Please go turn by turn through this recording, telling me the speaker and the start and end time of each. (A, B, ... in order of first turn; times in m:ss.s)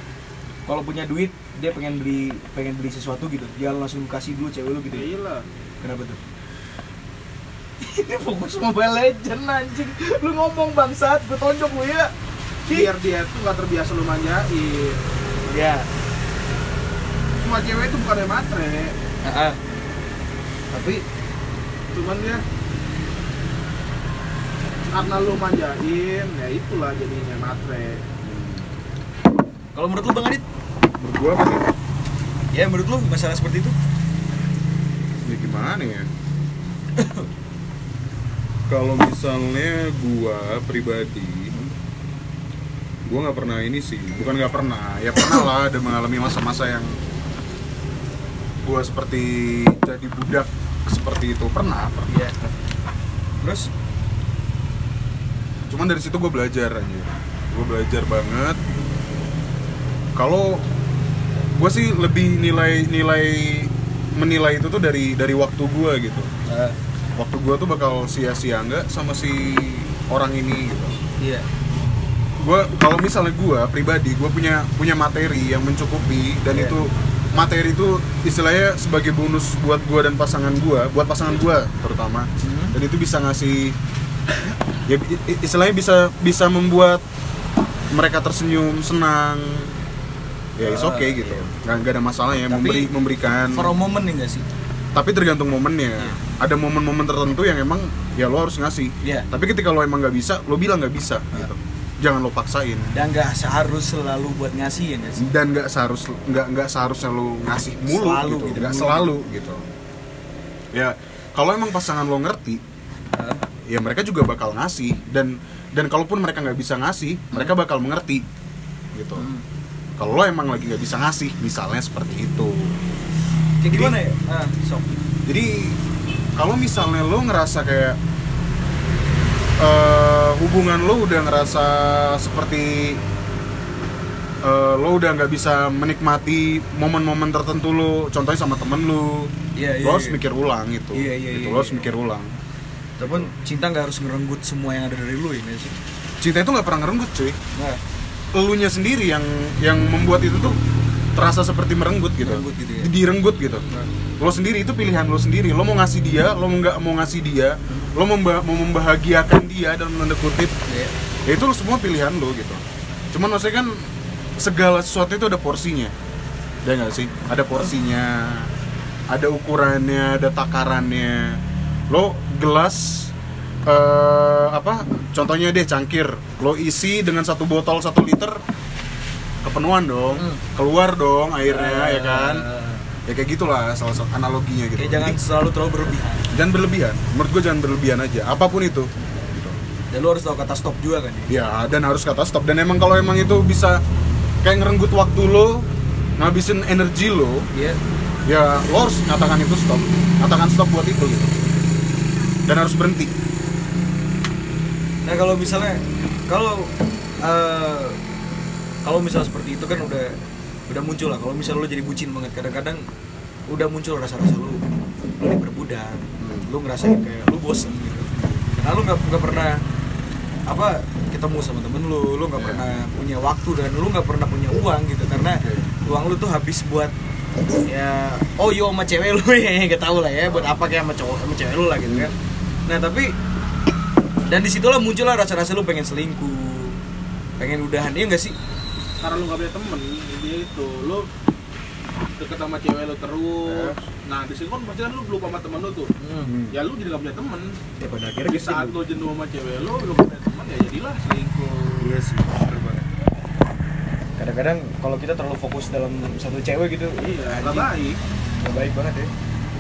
0:00.7-0:05.1 A
0:04.9-0:05.5 B
0:05.8-0:06.2 A
0:07.8-0:12.1 A
0:12.7-0:15.0 B
0:15.5-0:15.9 A
0:17.4-0:19.0 B
0:19.2-0:19.6 A
0:20.7-0:21.0 A
0:21.9-0:22.4 B
0:24.9-0:28.0 B
0:28.2-0:28.7 C
0:29.8-0:30.4 A
0:31.0-0:31.7 C
0:32.5-0:33.7 A
0:35.3-0:36.1 C
0:37.0-0:37.3 A
0:38.7-0:41.5 C
0:43.1-0:47.0 C
0:48.6-0:52.1 C
0:52.1-0:52.4 A
0:53.4-0:53.7 A
0:55.7-0:58.6 C
1:00.2-1:00.7 C
1:01.5-1:06.3 C
1:06.5-1:06.8 A
1:07.2-1:11.0 C
1:11.2-1:11.5 A
1:12.4-1:23.8 C
1:22.4-1:22.8 A
1:24.9-1:27.0 C
1:27.9-1:29.7 C
1:30.6-1:33.7 C
1:30.6-1:31.4 A
1:32.5-1:32.9 A
1:33.5-1:34.4 A
1:35.0-1:42.9 C
1:39.0-1:39.3 A
1:42.9-1:45.3 A
1:45.2-1:49.7 C
1:47.8-1:49.1 A
1:50.7-1:52.6 C
1:53.1-1:53.4 A
1:53.7-1:58.2 C
1:58.9-1:59.2 C
1:59.2-1:59.4 A
2:00.0-2:02.8 C
2:03.6-2:05.0 A
2:03.7-2:04.0 C
2:05.3-2:05.8 C
2:06.4-2:08.0 C
2:09.6-2:13.0 C
2:14.4-2:22.4 C
2:19.6-2:20.2 A
2:20.9-2:21.9 A
2:23.0-2:25.8 A
2:23.0-2:23.3 C
2:26.2-2:27.4 C
2:27.6-2:27.8 A
2:28.3-2:30.6 C
2:31.2-2:33.6 C
2:32.2-2:32.9 A
2:34.2-2:40.6 C
2:41.3-2:45.9 C
2:46.6-2:48.5 C
2:49.1-2:53.1 C
2:53.7-2:58.4 C
2:59.4-3:02.4 C
3:00.2-3:00.4 A
3:01.4-3:02.9 A
3:03.1-3:05.2 C
3:04.8-3:06.2 A
3:06.3-3:09.6 C
3:09.9-3:11.3 A
3:11.3-3:13.8 C
3:14.4-3:15.6 C
3:16.2-3:17.4 C
3:17.5-3:17.8 A
3:18.3-3:21.4 C
3:22.4-3:23.1 C
3:25.0-3:26.7 A
3:27.2-3:28.0 A
3:28.8-3:30.2 A
3:30.7-3:32.8 A
3:33.5-3:34.6 A
3:35.2-3:39.6 A
3:36.2-3:36.5 C
3:40.5-3:46.9 A
3:42.4-3:42.6 C
3:45.2-3:45.7 C
3:47.7-3:52.1 A
3:51.8-3:52.1 C
3:52.7-3:53.1 A
3:54.3-3:56.8 A
3:57.4-3:58.4 A
3:59.0-4:01.1 B
4:02.1-4:05.9 B
4:06.0-4:06.4 A
4:06.2-4:06.6 C
4:06.5-4:07.6 B
4:07.8-4:08.8 A
4:08.2-4:11.9 B
4:11.8-4:12.9 A
4:14.2-4:17.7 A
4:17.0-4:18.0 B
4:18.4-4:19.1 A